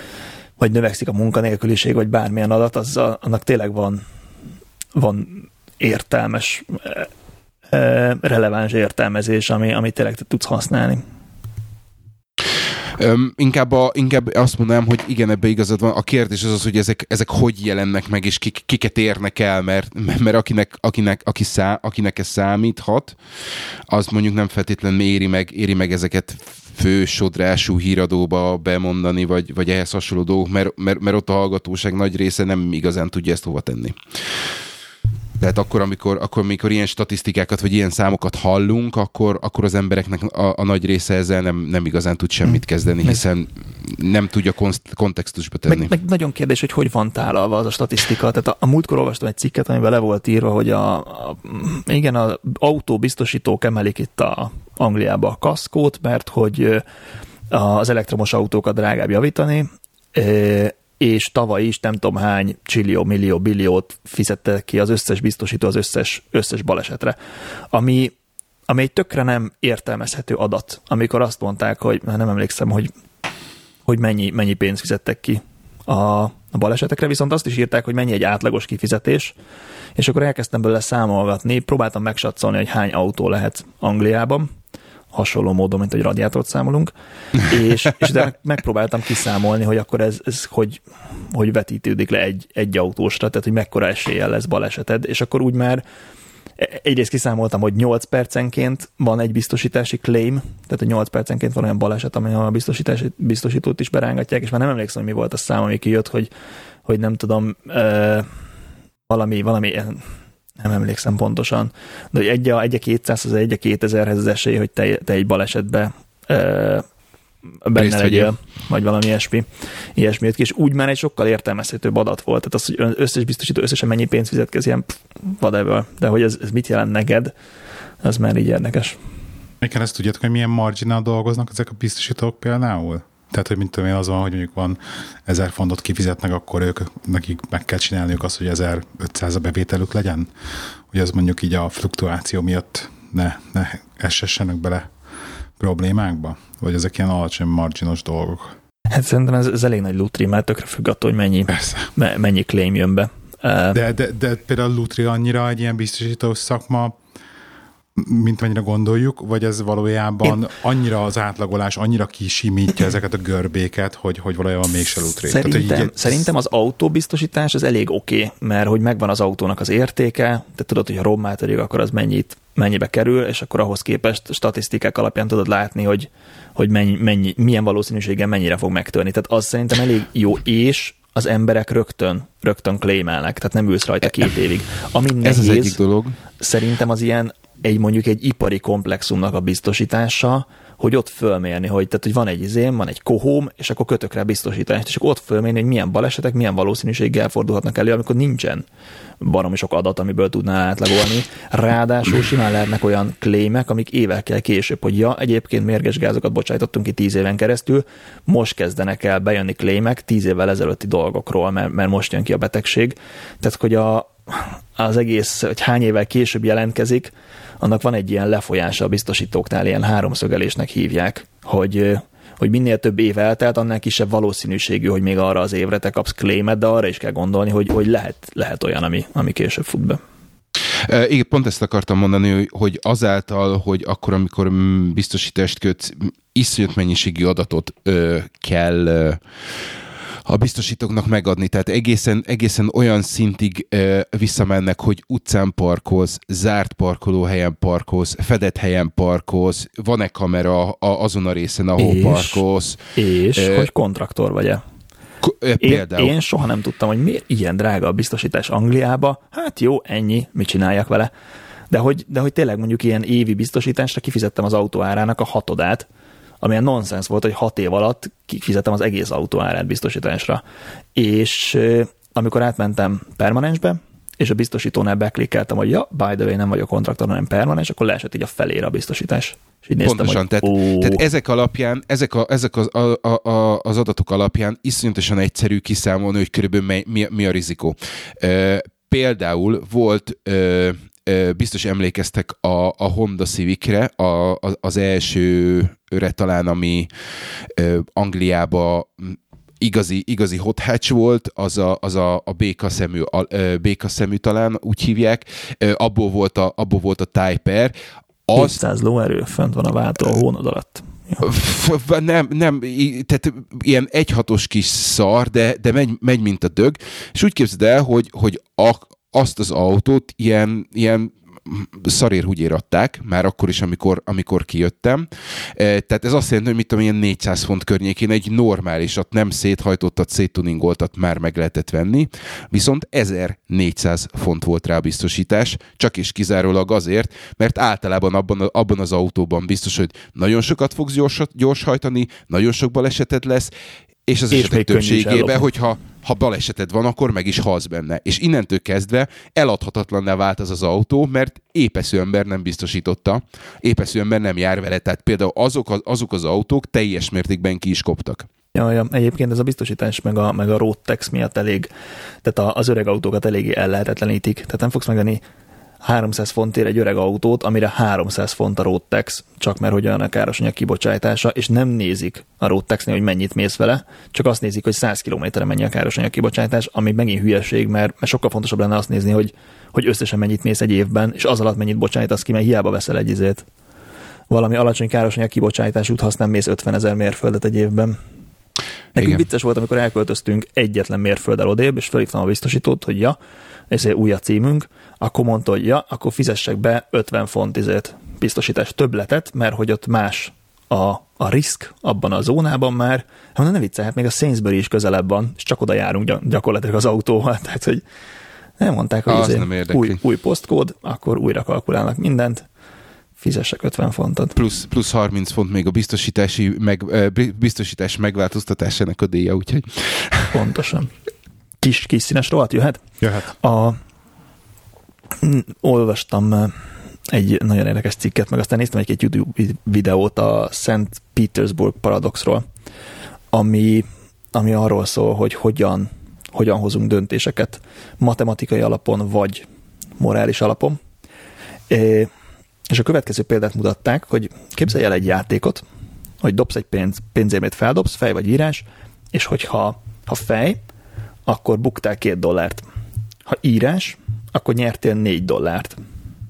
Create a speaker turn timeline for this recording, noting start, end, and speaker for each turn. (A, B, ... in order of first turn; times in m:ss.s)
0:00.6-0:04.0 A
0:05.0-0:07.1 A
0:07.7-0:11.0 A
0:13.0-0:23.2 B
0:23.9-0:34.5 B
0:35.4-0:45.9 B
0:42.5-0:43.2 A
0:45.7-0:56.8 A
0:57.5-1:07.2 A
1:07.7-1:08.1 A
1:08.7-1:12.9 A
1:13.8-1:19.4 A
1:20.0-1:24.5 A
1:25.1-1:35.8 A
1:36.6-1:46.3 A
1:46.8-1:48.3 A
1:49.1-1:50.0 A
1:50.6-1:56.9 A
1:57.6-2:07.3 A
1:57.8-1:58.3 B
2:08.0-2:09.0 A
2:09.6-2:20.3 C
2:20.9-2:24.9 C
2:25.6-2:28.5 C
2:28.9-2:33.8 A
2:31.5-2:31.9 C
2:33.7-2:37.0 C
2:38.0-2:46.3 C
2:45.2-3:05.8 A
3:05.2-3:06.2 B
3:06.4-3:18.7 A
3:19.2-3:50.0 A
3:50.9-3:59.7 B
4:00.3-4:12.8 B
4:11.8-4:12.4 A
4:13.0-4:14.6 A
4:13.4-4:13.7 B
4:15.2-4:16.2 B
4:15.6-4:21.1 A
4:21.7-4:25.9 A
4:26.4-4:30.4 A
4:31.0-4:41.0 A
4:39.8-4:56.9 B
4:57.5-5:07.8 B
5:08.3-5:08.6 B
5:08.4-5:11.2 A
5:11.2-5:43.5 B
5:44.1-5:58.3 B
5:44.3-5:45.5 A
5:58.5-6:01.7 A
6:02.2-6:05.2 A
6:05.8-6:23.5 A
6:24.3-6:28.0 A
6:29.0-6:33.2 A
6:33.7-6:47.8 A
6:48.6-6:52.5 A
6:49.1-6:50.0 B
6:53.2-6:54.4 A
6:54.4-7:00.4 B
7:00.3-7:00.9 A
7:01.6-7:03.8 A
7:03.0-7:03.3 C
7:05.2-7:06.6 A
7:07.1-7:12.4 A
7:13.3-7:19.5 A
7:20.0-7:20.8 A
7:21.7-7:22.1 A
7:22.7-7:25.6 A
7:26.2-7:30.6 A
7:31.3-7:32.6 A
7:33.3-7:35.8 A